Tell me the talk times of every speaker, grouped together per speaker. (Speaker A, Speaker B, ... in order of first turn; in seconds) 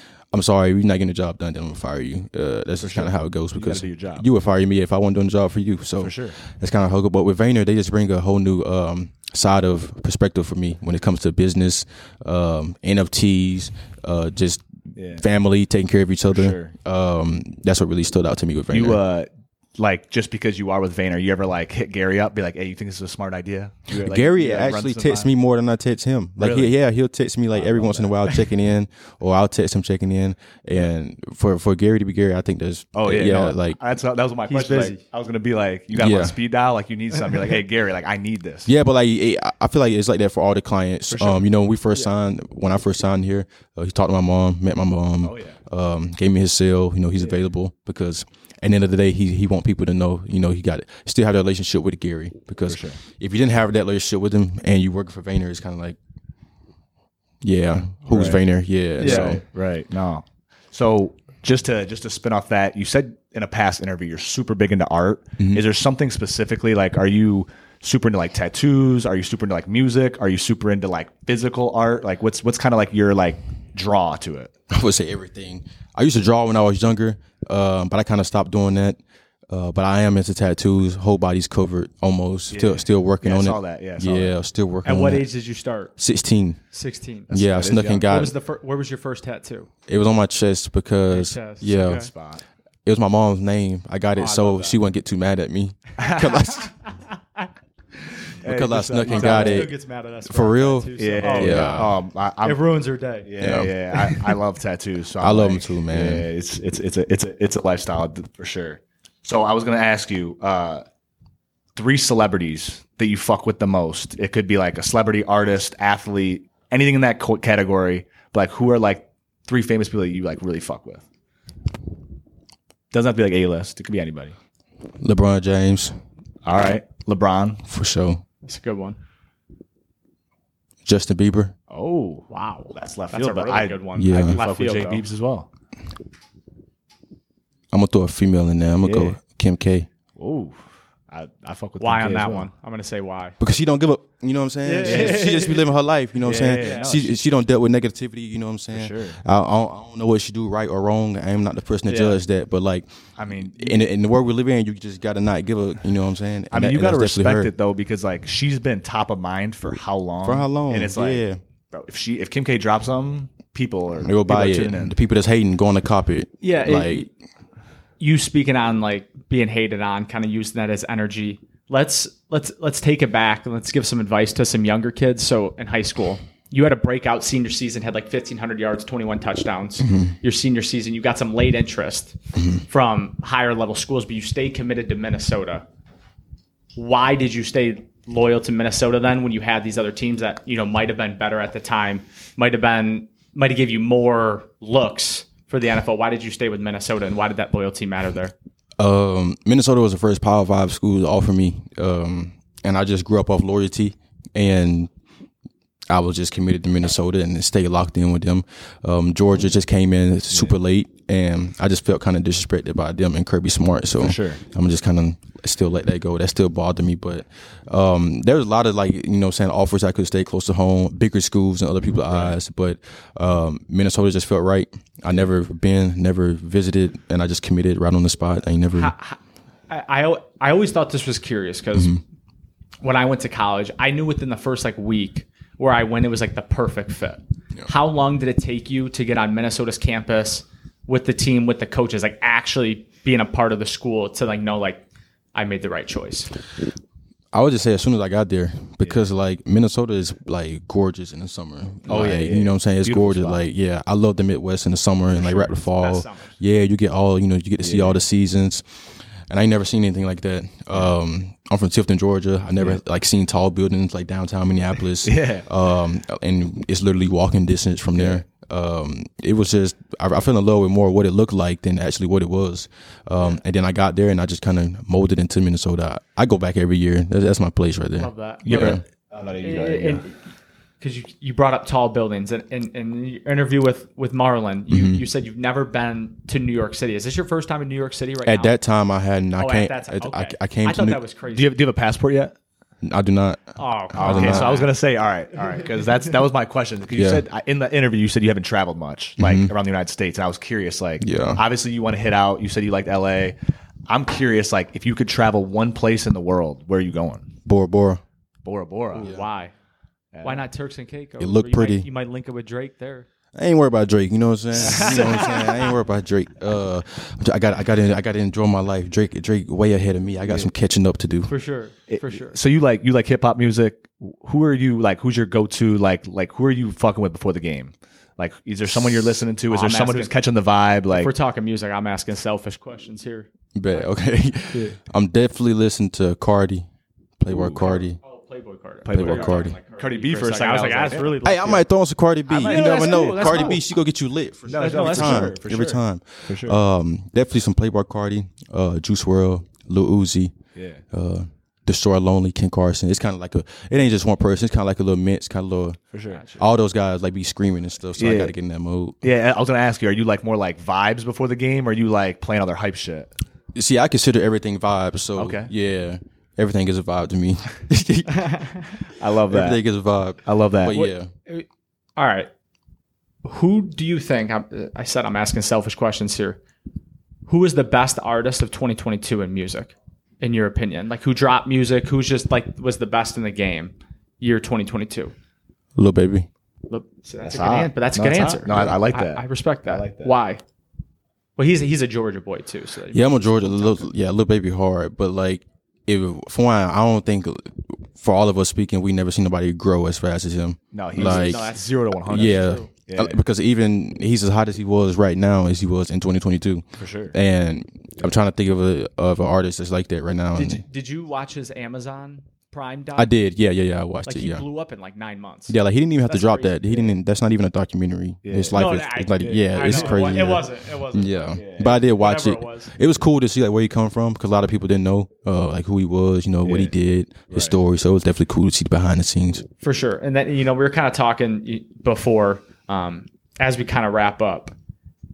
Speaker A: 0.3-19.0, 23.9-33.8, 35.9-36.4, 38.6-56.0, 57.4-59.4, 65.4-65.6, 74.7-85.3, 86.0-86.6, 87.3-88.3, 89.9-92.0, 92.8-96.7, 98.4-99.7, 100.2-101.9, 103.4-104.2, 105.2-106.3, 125.0-126.0, 127.7-128.2, 130.8-131.5, 133.9-134.4, 137.7-139.9, 143.4-152.9, 153.4-157.5, 160.2-161.4, 164.0-167.1, 179.8-180.2, 182.3-182.6, 198.8-204.9, 205.9-228.9, 231.7-232.0, 247.3-258.6, 259.3-278.8, 284.7-285.0, 288.2-291.0, 292.8-294.5, 296.9-297.2, 299.2-299.5, 301.0-301.4, 307.4-308.0, 308.9-309.3, 311.2-311.9, 313.3-321.3, 333.5-336.7, 337.2-338.0, 338.9-339.6, 341.2-350.3, 350.9-355.8, 356.4-359.0, 363.5-368.7, 369.3-371.1, 385.8-386.3, 392.9-410.6, 412.9-414.4, 415.5-429.4
Speaker B: 2.8-4.3, 6.0-6.4, 14.9-15.2, 16.3-16.7, 18.7-25.3, 26.4-26.7, 27.5-28.2, 32.9-38.7, 41.1-41.5, 45.2-45.6, 52.7-53.0, 58.1-58.4, 59.0-74.5, 82.5-84.3, 87.3-88.0, 91.9-92.4, 96.0-96.4, 98.4-99.7, 101.0-102.6, 103.2-110.8, 111.7-121.0, 122.9-124.3, 126.4-127.6, 131.7-135.5, 138.8-139.2, 140.2-142.5, 144.8-145.2, 146.2-147.1, 148.7-149.2, 153.2-153.8, 156.5-164.9, 214.0-214.4, 222.1-222.3, 251.9-253.4, 257.6-258.0, 265.0-265.4, 267.9-268.2, 278.4-280.0, 291.3-292.3, 293.9-303.4, 303.9-307.3, 308.4-309.1, 310.1-310.5, 314.7-315.0, 321.9-331.1, 337.3-337.6, 338.9-341.2, 342.3-343.6, 344.4-346.6, 350.5-350.8, 355.9-356.4, 358.0-358.3, 359.0-363.1, 365.1-365.5, 369.0-369.6, 370.2-370.8, 387.2-390.1, 400.7-403.2, 406.8-407.1, 418.2-418.6, 419.2-420.2, 421.4-421.7, 426.4-426.7, 427.3-427.6
Speaker C: 34.5-35.0, 59.0-59.4, 84.8-85.9, 86.7-87.3, 88.0-89.7, 91.1-92.1, 94.2-94.7, 99.0-103.4, 128.4-129.0, 132.3-135.0, 141.8-143.3, 144.6-145.6, 146.3-146.9, 151.9-152.2, 166.4-167.1, 168.0-185.7, 186.7-198.3, 228.7-232.0, 232.8-246.3, 255.1-256.4, 278.0-278.8, 279.4-280.2, 280.8-288.6, 289.4-291.6, 293.6-294.7, 308.9-309.5, 310.2-313.1, 314.5-315.6, 321.3-322.4, 329.5-330.1, 330.9-333.9, 337.6-341.6, 342.4-343.6, 344.5-345.4, 370.7-372.3, 373.2-376.4, 377.2-385.1, 386.7-390.4, 391.4-393.9, 400.9-402.7, 410.3-413.1, 414.1-416.8, 418.5-422.7, 429.6-434.5